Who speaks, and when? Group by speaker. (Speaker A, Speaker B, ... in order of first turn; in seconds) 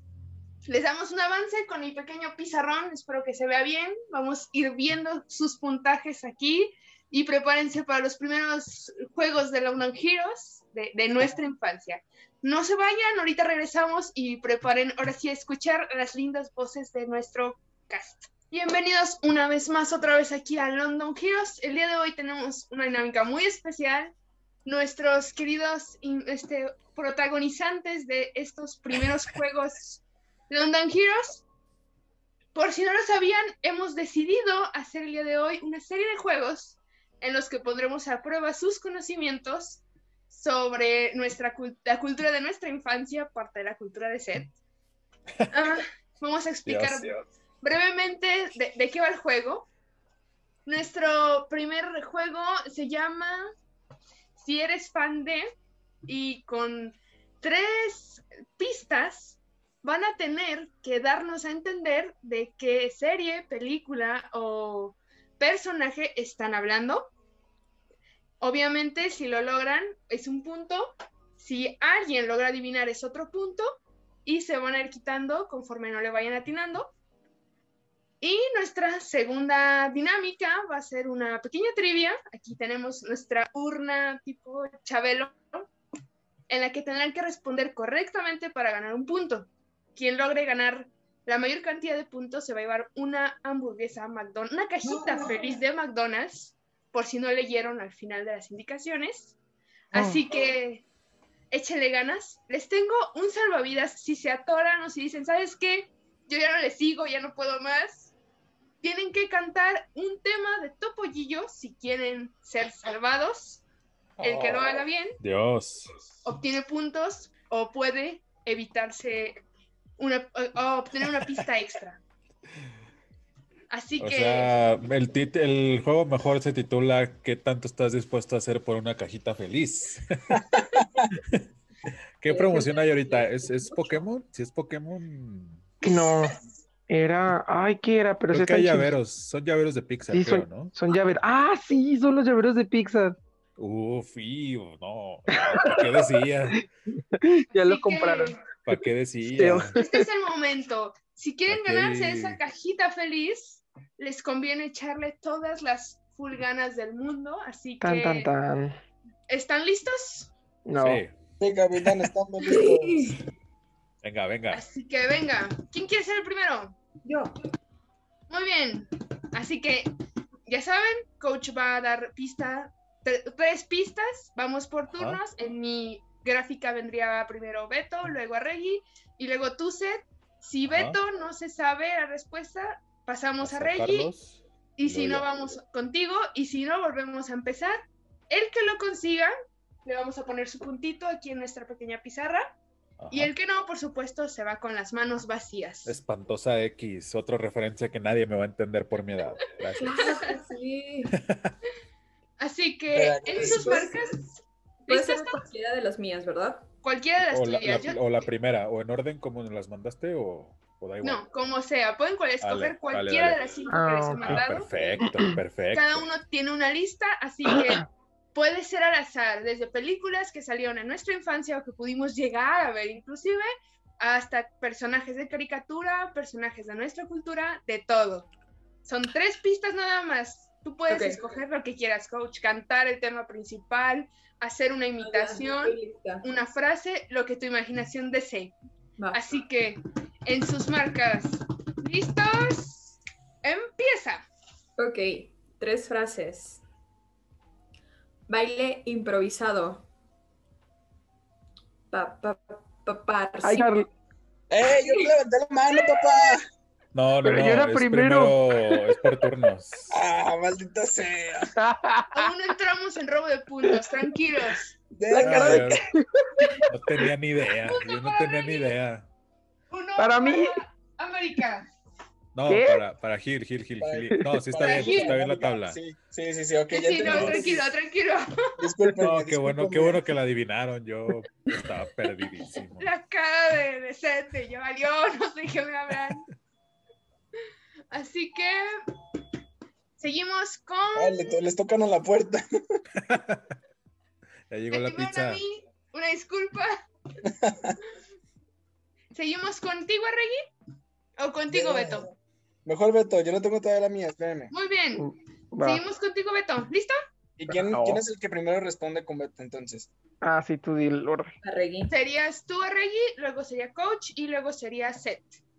Speaker A: 0.7-24.1, 24.6-31.4, 32.5-44.5, 45.5-49.7, 50.6-53.5, 54.4-55.5, 56.0-67.1, 68.4-73.7, 74.2-76.9, 78.2-85.6, 86.5-99.3, 99.9-100.8, 101.5-108.1, 108.8-113.6, 114.2-115.2, 116.2-119.4, 120.0-122.0, 123.7-124.5, 147.5-148.4, 149.7-158.3, 159.3-160.3, 164.5-166.8, 168.3-169.9, 170.5-184.1, 184.8-187.8, 188.3-189.3, 189.8-192.5, 193.1-196.0, 202.4-205.4, 206.8-208.3, 211.0-215.0, 215.7-223.5, 224.0-228.3, 228.8-238.5, 239.1-244.2, 262.1-264.7, 267.6-268.7, 269.7-271.6, 274.6-275.1, 276.7-278.5, 282.8-286.3, 287.9-288.7, 290.0-291.4, 294.7-296.8, 299.1-300.4, 301.2-302.1, 304.5-305.1, 305.6-307.0, 311.9-315.4
Speaker B: 46.6-47.2, 114.2-114.6, 115.2-115.9, 124.0-130.4, 131.1-131.4, 132.2-135.7, 138.3-140.7, 143.6-146.6, 148.7-149.7, 151.5-152.4, 160.8-161.1, 164.0-164.6, 174.9-175.2, 180.7-181.0, 183.4-185.3, 193.0-193.3, 195.8-200.2, 201.1-201.6, 207.3-211.2, 212.4-213.4, 214.2-216.1, 256.9-259.9, 265.2-265.8, 266.7-269.1, 272.3-275.8, 277.0-277.5, 279.0-282.9, 292.9-293.6, 294.5-295.4
Speaker C: 99.9-100.2, 135.8-138.9, 140.1-143.2, 145.3-148.4, 149.3-150.1, 157.8-158.7, 160.7-161.0, 213.7-214.4, 215.0-215.4, 217.5-217.8, 253.4-253.9, 257.2-259.1, 261.6-262.3, 265.1-266.7, 270.0-270.6, 272.5-272.8, 304.9-305.8, 307.5-308.0, 310.2-311.4
Speaker D: 132.3-134.0, 162.4-163.2, 167.0-167.3, 199.8-201.2, 203.3-204.1, 204.9-206.7, 230.9-231.2, 235.0-236.2, 244.8-246.6, 248.3-249.9, 251.9-253.7, 311.4-311.9
Speaker E: 161.4-163.2, 202.9-203.9, 254.5-256.4, 259.9-261.5, 264.9-265.8, 273.8-277.7, 278.6-280.0, 290.9-292.8, 297.3-297.8, 301.5-302.1, 302.6-304.5, 307.4-309.9